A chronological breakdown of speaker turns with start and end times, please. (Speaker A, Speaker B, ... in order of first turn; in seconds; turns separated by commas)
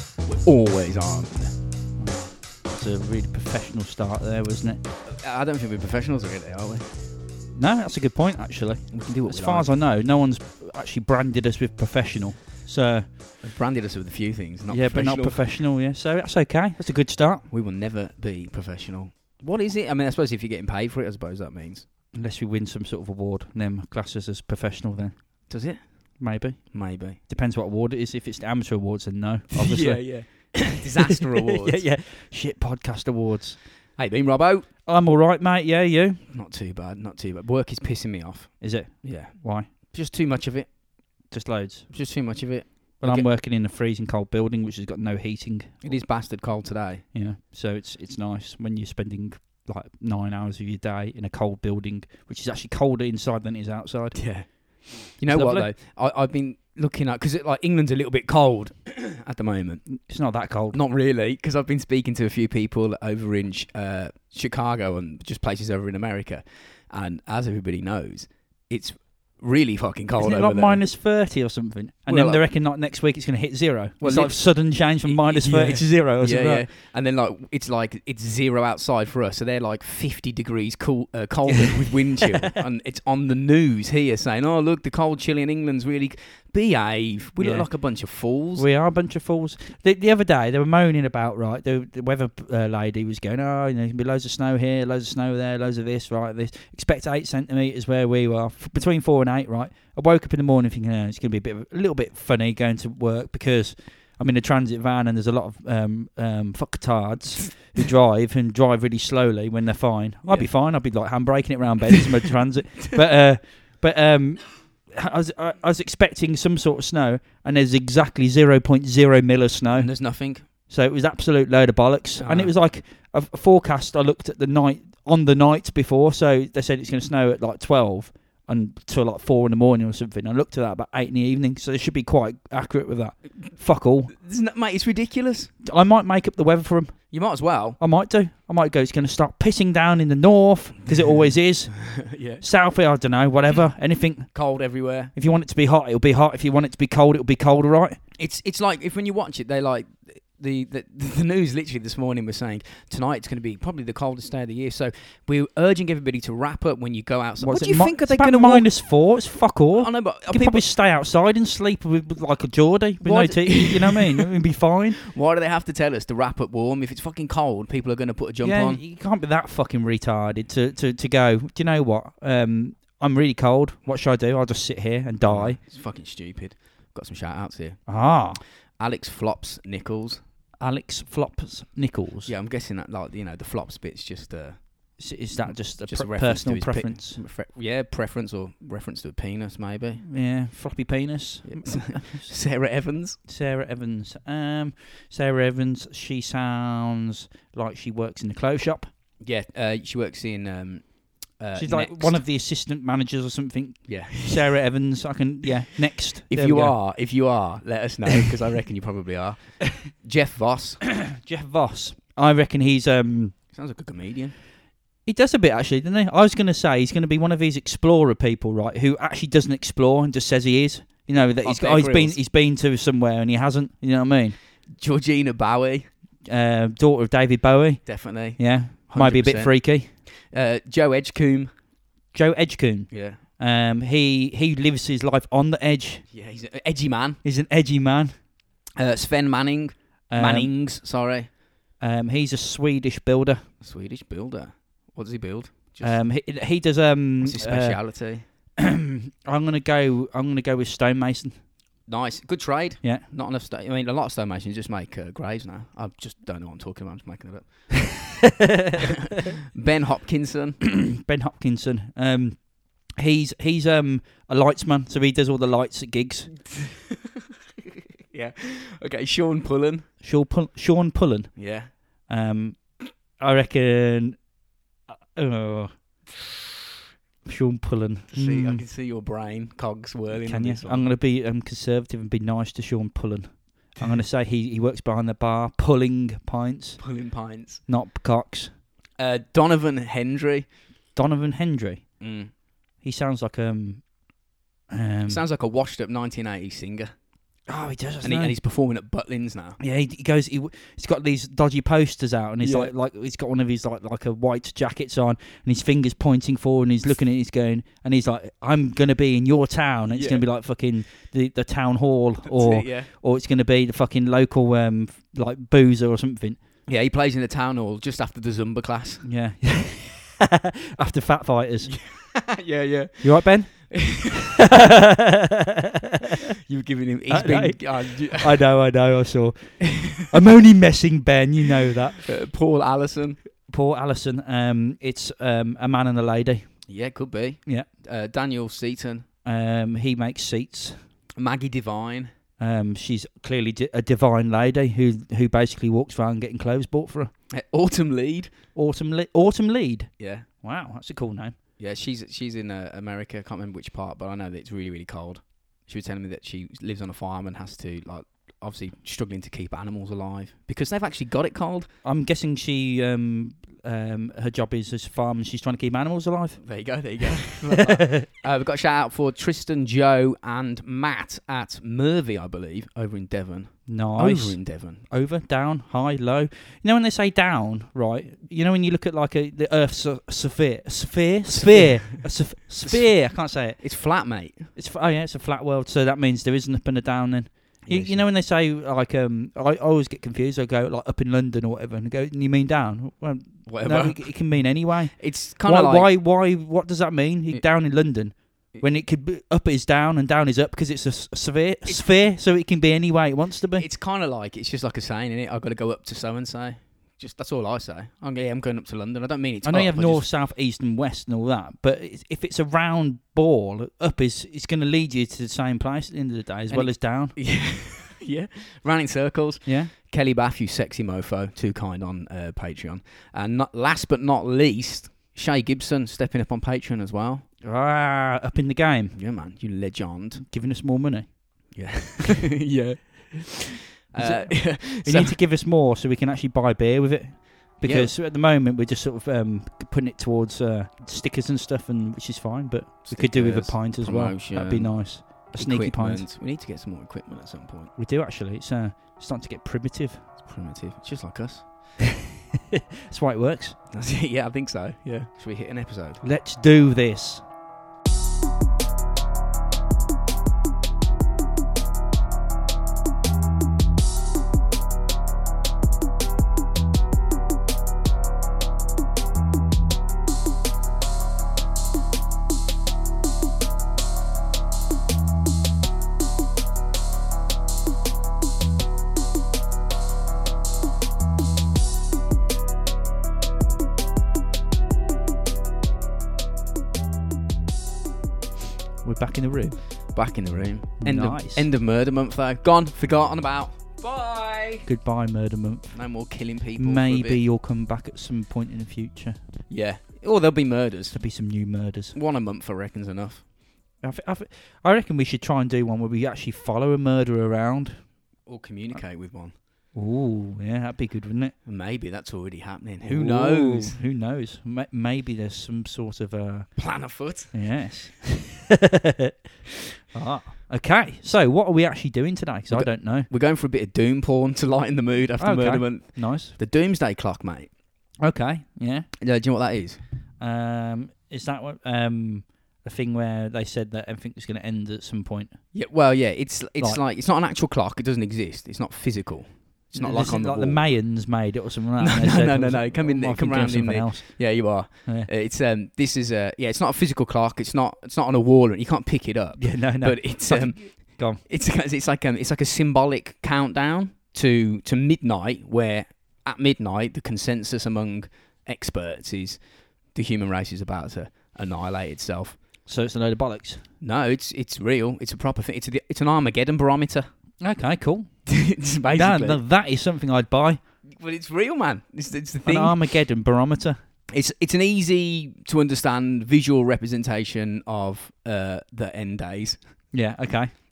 Speaker A: 0.2-1.5, Speaker B: 2.0-4.8, Speaker A: 5.0-6.9, Speaker B: 7.5-13.1, Speaker A: 8.9-9.7, Speaker A: 13.4-15.4, Speaker B: 14.7-17.5, Speaker A: 17.5-21.9, Speaker B: 22.1-25.1, Speaker A: 25.5-26.2, Speaker B: 26.2-30.6, Speaker A: 26.7-27.2, Speaker A: 29.5-31.8, Speaker B: 31.4-33.6, Speaker A: 34.0-34.7, Speaker B: 34.9-36.2, Speaker A: 36.3-40.7, Speaker B: 38.6-39.7, Speaker B: 41.3-41.9, Speaker A: 41.9-43.3, Speaker B: 43.0-45.9, Speaker A: 45.8-47.0, Speaker B: 47.1-54.2, Speaker A: 54.1-59.9, Speaker B: 55.3-55.7, Speaker B: 59.9-60.8, Speaker A: 60.7-70.8, Speaker B: 70.2-76.7, Speaker A: 72.1-72.4, Speaker A: 74.0-74.4, Speaker A: 75.0-88.7, Speaker B: 81.5-82.6, Speaker B: 87.4-87.7, Speaker B: 88.6-119.9, Speaker A: 119.7-120.4, Speaker B: 120.7-134.1, Speaker A: 122.2-122.5, Speaker A: 134.1-135.5, Speaker B: 135.6-136.9, Speaker A: 137.1-137.8, Speaker B: 137.8-144.3, Speaker A: 141.9-142.4, Speaker A: 144.3-145.1, Speaker B: 145.1-148.0, Speaker A: 148.2-158.7, Speaker B: 157.4-165.0, Speaker A: 159.8-160.6, Speaker A: 163.0-164.3, Speaker A: 165.0-168.8, Speaker B: 168.4-175.6, Speaker A: 175.3-177.8, Speaker B: 177.9-178.4, Speaker A: 178.8-180.2, Speaker B: 180.6-182.3, Speaker A: 182.2-184.6, Speaker B: 185.0-187.2, Speaker A: 185.4-190.0, Speaker B: 190.0-192.3, Speaker A: 191.4-193.2, Speaker B: 193.3-198.9, Speaker A: 199.2-200.9, Speaker A: 201.4-202.2, Speaker B: 201.6-206.7, Speaker A: 203.9-204.6, Speaker A: 206.3-210.8, Speaker B: 210.8-213.3, Speaker A: 213.5-214.3, Speaker B: 215.1-224.3, Speaker A: 221.4-222.2, Speaker A: 224.8-225.9, Speaker B: 226.2-229.9, Speaker A: 227.8-229.5, Speaker A: 230.3-231.5, Speaker B: 232.1-236.0, Speaker A: 232.9-233.2, Speaker A: 236.1-237.2, Speaker B: 237.2-238.1, Speaker A: 238.8-241.3, Speaker B: 240.1-240.5, Speaker B: 241.8-243.4, Speaker A: 243.6-246.0, Speaker B: 245.8-247.8, Speaker A: 247.2-248.2, Speaker B: 248.6-251.3, Speaker A: 251.9-258.0, Speaker B: 258.2-258.9, Speaker A: 258.9-260.6, Speaker B: 260.6-262.4, Speaker B: 263.0-266.3, Speaker A: 268.1-269.9, Speaker B: 270.0-271.3, Speaker A: 271.4-271.7, Speaker B: 272.1-272.6, Speaker B: 273.2-274.2, Speaker B: 275.1-275.7, Speaker B: 277.2-278.6, Speaker A: 278.1-280.9, Speaker B: 280.1-286.8, Speaker A: 286.8-287.6, Speaker B: 287.7-288.5, Speaker A: 289.0-290.5, Speaker B: 290.9-291.8, Speaker A: 292.0-292.3, Speaker B: 292.8-293.8, Speaker B: 294.7-295.2, Speaker A: 295.1-296.9, Speaker B: 297.5-298.3, Speaker A: 298.0-299.6, Speaker B: 299.6-316.4, Speaker A: 302.4-302.7, Speaker A: 309.9-310.2, Speaker A: 312.2-312.9, Speaker A: 316.7-319.1, Speaker B: 319.0-321.7, Speaker A: 321.6-324.4, Speaker B: 323.0-326.0, Speaker A: 326.4-328.4, Speaker B: 327.1-332.0, Speaker A: 329.6-330.1, Speaker A: 332.0-333.2, Speaker B: 333.5-336.5, Speaker A: 336.7-339.0, Speaker B: 339.2-340.8, Speaker A: 341.2-342.1, Speaker B: 342.4-347.1, Speaker A: 347.3-348.3, Speaker B: 348.5-349.9, Speaker A: 350.0-350.2, Speaker B: 350.4-351.4, Speaker A: 351.6-361.7, Speaker B: 361.8-366.4, Speaker A: 366.4-374.8, Speaker B: 367.0-368.1, Speaker B: 373.7-383.6, Speaker A: 381.3-382.0, Speaker A: 383.6-384.5, Speaker B: 384.5-403.6, Speaker A: 387.6-388.0, Speaker A: 393.4-394.4, Speaker A: 395.0-395.9, Speaker A: 403.6-410.1, Speaker B: 409.4-417.1, Speaker A: 416.5-427.2, Speaker B: 419.4-419.7, Speaker B: 427.4-428.9, Speaker A: 428.9-430.2, Speaker B: 430.2-431.1, Speaker A: 431.5-435.1, Speaker B: 434.0-446.1, Speaker A: 437.6-437.9, Speaker A: 442.8-447.7, Speaker B: 447.8-450.0, Speaker A: 450.2-451.5, Speaker B: 452.3-453.6, Speaker A: 453.7-456.0, Speaker B: 456.0-457.2, Speaker B: 488.8-489.6, Speaker A: 489.9-494.7, Speaker B: 490.8-491.5, Speaker B: 494.6-495.8, Speaker A: 495.7-497.2, Speaker B: 496.6-499.2, Speaker A: 499.5-501.0, Speaker B: 500.9-501.9, Speaker A: 501.9-503.2, Speaker B: 503.8-507.8, Speaker A: 508.3-509.3, Speaker B: 509.7-511.3, Speaker A: 511.4-513.8, Speaker B: 512.8-516.6, Speaker A: 516.6-517.3, Speaker B: 517.3-519.1, Speaker B: 519.9-523.1, Speaker A: 522.5-527.5, Speaker B: 525.2-526.3, Speaker B: 528.0-528.9, Speaker A: 529.0-529.8, Speaker B: 530.2-535.4, Speaker A: 535.5-540.6, Speaker B: 539.8-545.1, Speaker A: 541.8-559.4, Speaker B: 549.4-551.2, Speaker A: 559.9-562.4, Speaker B: 562.7-563.6, Speaker A: 563.8-567.1, Speaker B: 567.4-568.1, Speaker A: 568.2-569.4, Speaker B: 568.9-570.6, Speaker A: 571.0-572.8, Speaker B: 572.4-573.8, Speaker A: 574.1-579.6, Speaker B: 579.9-580.5